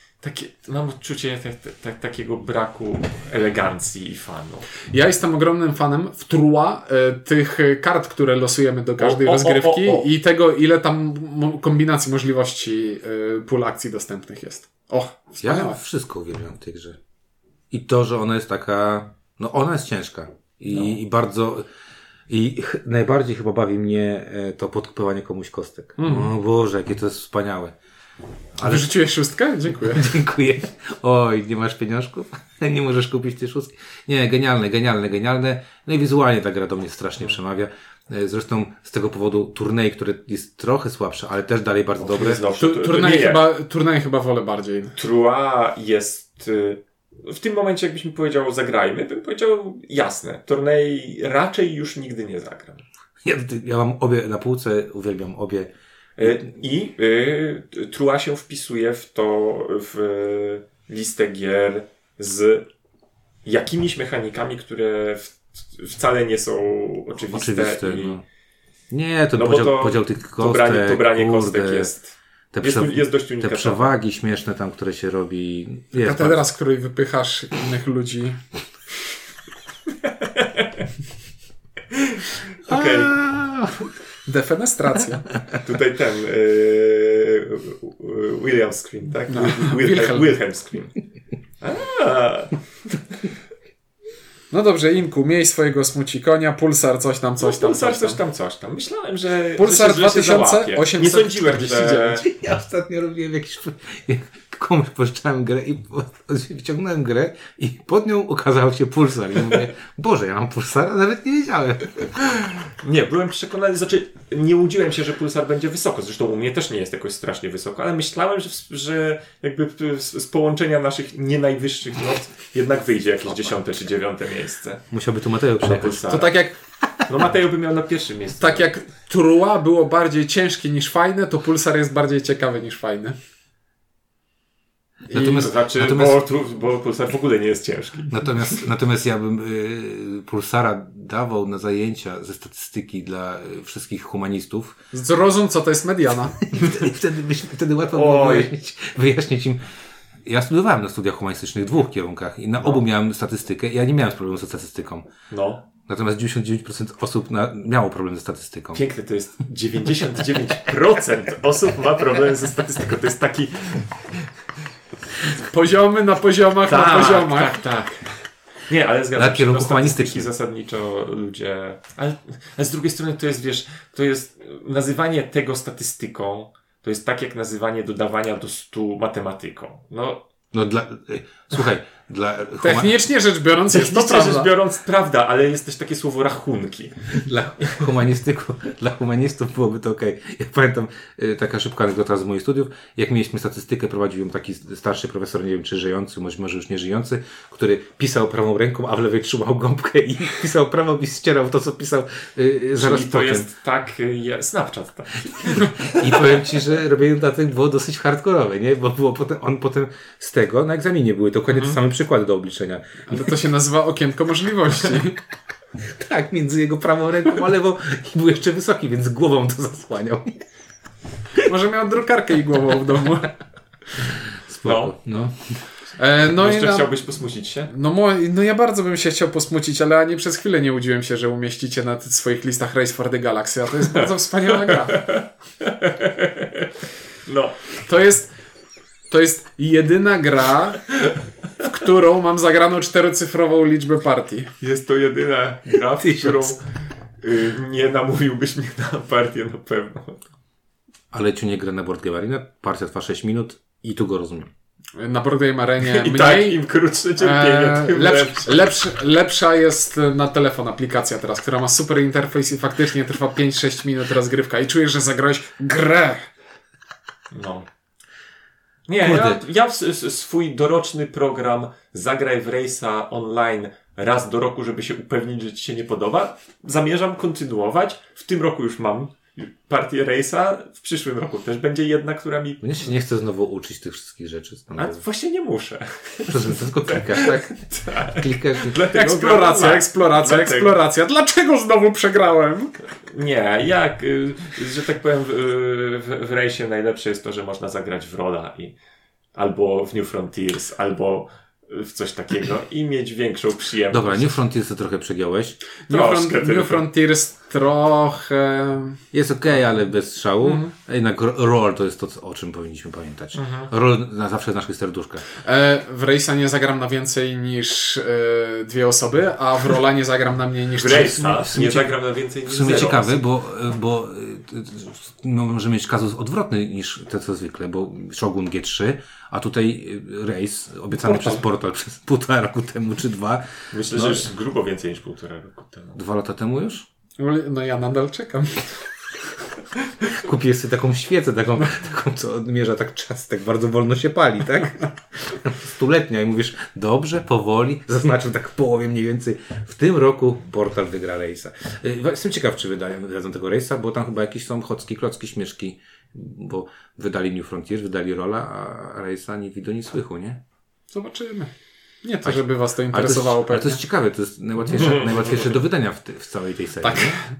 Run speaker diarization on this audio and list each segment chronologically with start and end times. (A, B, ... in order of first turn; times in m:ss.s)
0:00.2-0:04.7 A
0:04.9-0:15.8 B
0:09.0-0:10.1 A
0:15.4-0:17.0 C
0:17.7-0:21.7 C
0:22.3-0:27.7 C
0:26.0-0:26.3 B
0:28.6-0:28.9 C
0:28.6-0:30.1 B
0:29.9-0:42.4 C
0:42.0-0:43.5 A
0:42.6-0:45.0 B
0:45.0-0:52.8 A
0:53.2-0:55.7 C
0:56.2-1:02.7 A
1:03.4-1:08.2 A
1:07.2-1:08.2 C
1:08.9-1:11.9 C
1:09.3-1:13.9 A
1:12.5-1:16.4 C
1:16.0-1:18.4 B
1:20.0-1:20.9 A
1:21.9-1:23.2 A
1:22.7-1:23.9 C
1:24.2-1:25.2 B
1:25.6-1:30.9 A
1:29.3-1:30.4 B
1:31.6-1:32.6 A
1:34.5-1:38.2 B
1:37.4-1:42.2 A
1:39.6-1:42.2 B
1:42.2-1:52.2 C
1:52.8-2:04.8 A
2:04.9-2:06.3 C
2:05.6-2:06.4 A
2:06.1-2:06.5 B
2:07.1-2:08.7 A
2:08.4-2:13.2 B
2:15.1-2:16.2 C
2:15.1-2:15.4 B
2:15.1-2:18.6 A
2:18.1-2:24.8 C
2:24.9-2:26.4 B
2:26.4-2:29.6 C
2:27.9-2:28.5 A
2:30.2-2:35.1 C
2:35.3-2:35.6 A
2:35.8-2:38.8 C
2:38.7-2:44.2 A
2:45.4-2:47.6 B
2:46.7-2:48.1 A
2:48.7-3:00.2 A
2:49.1-2:50.3 C
3:00.5-3:02.9 C
3:02.6-3:04.5 B
3:03.7-3:07.0 A
3:07.2-3:23.5 C
3:22.8-3:26.4 A
3:25.4-3:33.2 C
3:31.5-3:31.8 A
3:33.1-3:35.2 B
3:35.9-3:40.4 C
3:41.4-3:43.3 B
3:44.5-3:45.4 C
3:44.6-3:44.9 A
3:46.0-3:47.0 B
3:46.2-3:47.7 A
3:47.7-3:55.0 B
3:53.8-3:56.7 A
3:57.2-3:57.6 A
3:57.8-3:58.3 B
3:59.1-4:00.9 B
4:01.6-4:04.5 B
4:04.6-4:06.6 A
4:06.0-4:06.6 C
4:07.2-4:10.2 A
4:11.1-4:14.5 C
4:15.0-4:16.6 B
4:15.8-4:18.7 A
4:17.2-4:26.3 B
4:27.3-4:27.7 A
4:28.9-4:42.6 A
4:29.0-4:29.4 C
4:42.6-4:45.0 C
4:44.8-4:50.8 A
4:46.3-4:48.8 C
4:48.9-4:52.8 B
4:53.0-4:58.8 A
4:59.3-5:04.3 A
5:03.9-5:05.6 C
5:05.9-5:09.0 B
5:05.9-5:06.8 A
5:09.1-5:15.2 C
5:10.4-5:10.7 B
5:13.3-5:13.7 A
5:15.4-5:21.3 B
5:20.7-5:23.2 A
5:20.8-5:21.9 C
5:22.4-5:34.3 C
5:31.0-5:31.4 B
5:33.7-5:36.0 A
5:35.9-5:36.8 C
5:37.2-5:38.6 B
5:40.1-6:00.4 C
6:00.9-6:01.5 B
6:02.0-6:03.8 B
6:02.2-6:07.2 C
6:04.7-6:05.5 A
6:06.8-6:07.3 B